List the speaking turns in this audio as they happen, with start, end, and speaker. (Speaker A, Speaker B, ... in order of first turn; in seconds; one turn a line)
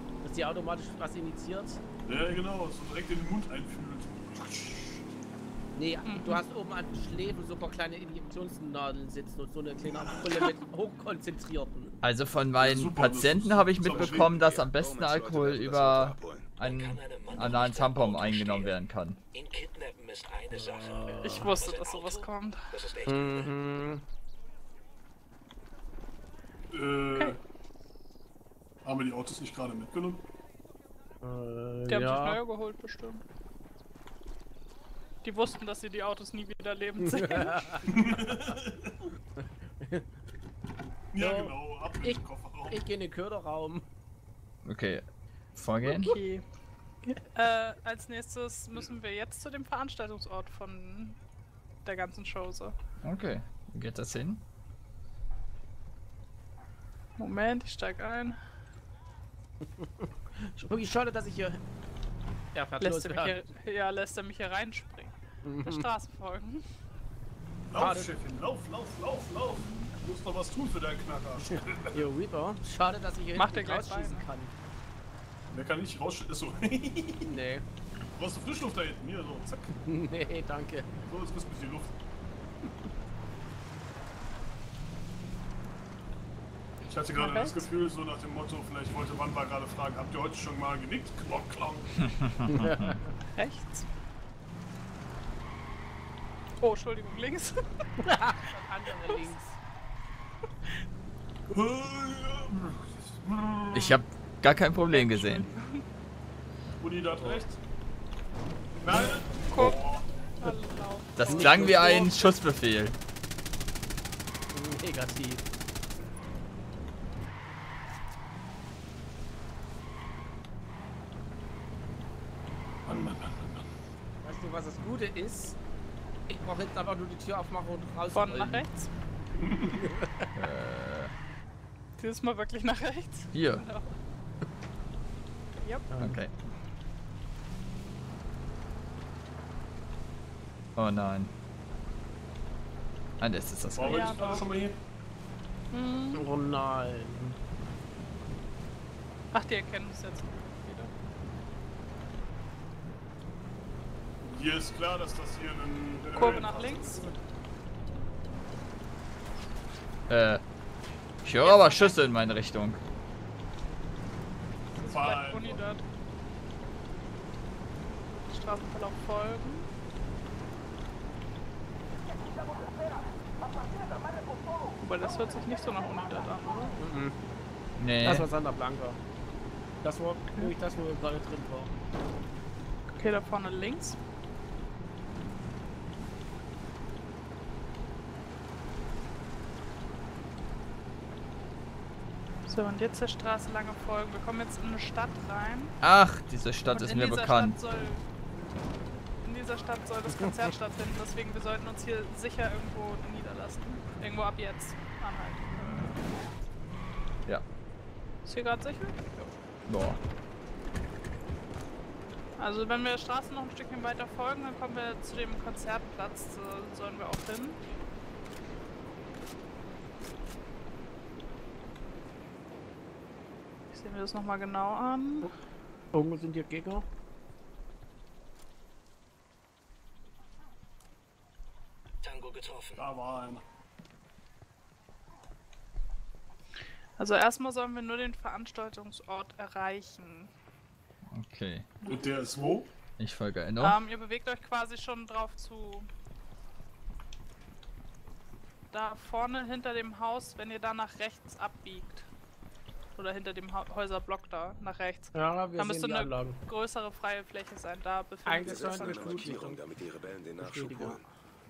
Speaker A: 0.2-1.8
Speaker B: 2.0-5.0
Speaker A: 5.8-11.9
Speaker C: 6.0-6.4
Speaker D: 12.0-19.2
Speaker B: 12.6-14.4
Speaker E: 13.8-16.6
Speaker F: 16.6-18.8
Speaker F: 19.3-23.5
Speaker A: 20.5-21.5
Speaker C: 21.2-22.7
Speaker A: 23.1-24.0
Speaker B: 26.7-27.4
Speaker B: 28.8-30.2
Speaker A: 31.2-32.4
Speaker C: 31.9-33.2
Speaker C: 35.2-37.6
Speaker A: 37.0-37.9
Speaker B: 37.8-39.1
Speaker A: 39.4-40.0
Speaker B: 41.1-42.8
Speaker A: 41.2-43.9
Speaker D: 44.6-46.2
Speaker C: 45.9-46.4
Speaker C: 47.0-51.2
Speaker C: 51.8-52.7
Speaker D: 53.0-54.4
Speaker C: 57.2-58.4
Speaker A: 59.6-61.6
Speaker A: 62.5-63.4
Speaker C: 62.8-66.6
Speaker A: 65.4-65.9
Speaker B: 67.7-72.0
Speaker A: 67.7-68.1
Speaker A: 71.4-74.5
Speaker C: 73.3-74.2
Speaker B: 75.5-77.3
Speaker A: 77.2-77.6
Speaker B: 78.1-79.7
Speaker A: 79.8-80.9
Speaker B: 81.1-81.9
Speaker B: 86.8-92.5
Speaker C: 87.1-87.7
Speaker D: 92.0-93.0
Speaker A: 92.5-93.1
Speaker C: 93.4-93.8
Speaker C: 96.6-97.6
Speaker A: 98.0-99.5
Speaker B: 101.5-104.0
Speaker D: 103.7-105.5
Speaker C: 104.9-105.8
Speaker B: 106.8-107.6
Speaker A: 107.2-107.5
Speaker B: 108.8-110.1
Speaker C: 109.5-109.8
Speaker C: 110.4-112.1
Speaker D: 111.2-112.9
Speaker A: 111.3-112.2
Speaker A: 114.5-115.4
Speaker B: 122.8-123.6
Speaker A: 124.2-125.6
Speaker A: 126.3-128.6
Speaker C: 128.1-128.9
Speaker B: 129.4-129.8
Speaker A: 129.6-130.3
Speaker D: 130.3-131.1
Speaker C: 132.0-133.9
Speaker D: 133.3-133.6
Speaker A: 135.9-136.2
Speaker D: 136.0-136.3
Speaker D: 140.8-141.3
Speaker D: 143.2-144.2
Speaker B: 143.8-144.8
Speaker C: 143.8-144.5
Speaker C: 145.7-146.2
Speaker A: 146.1-147.4
Speaker C: 149.3-150.9
Speaker B: 154.2-157.1
Speaker C: 156.1-157.1
Speaker A: 156.2-157.0
Speaker D: 160.1-160.4
Speaker D: 161.2-162.8
Speaker C: 161.4-162.0
Speaker C: 164.8-165.8
Speaker B: 164.9-165.6
Speaker C: 168.3-169.7
Speaker C: 174.8-176.7
Speaker A: 176.8-177.2
Speaker D: 177.8-178.3
Speaker A: 178.0-179.0
Speaker A: 179.8-181.7
Speaker C: 182.9-184.0
Speaker C: 192.5-195.8
Speaker D: 195.8-197.5
Speaker C: 196.7-198.0
Speaker C: 199.2-206.0
Speaker C: 208.2-209.0
Speaker D: 209.7-210.0
Speaker C: 212.4-217.6
Speaker C: 223.7-225.3
Speaker A: 225.9-226.8
Speaker F: 232.0-232.8
Speaker B: 232.8-233.4
Speaker C: 237.0-240.3
Speaker D: 241.1-241.7
Speaker B: 241.8-242.7
Speaker D: 243.0-243.8
Speaker C: 243.6-245.9
Speaker C: 248.7-252.1
Speaker C: 252.9-259.4
Speaker A: 255.1-256.4
Speaker A: 258.2-259.6
Speaker E: 258.4-261.1
Speaker A: 260.4-261.0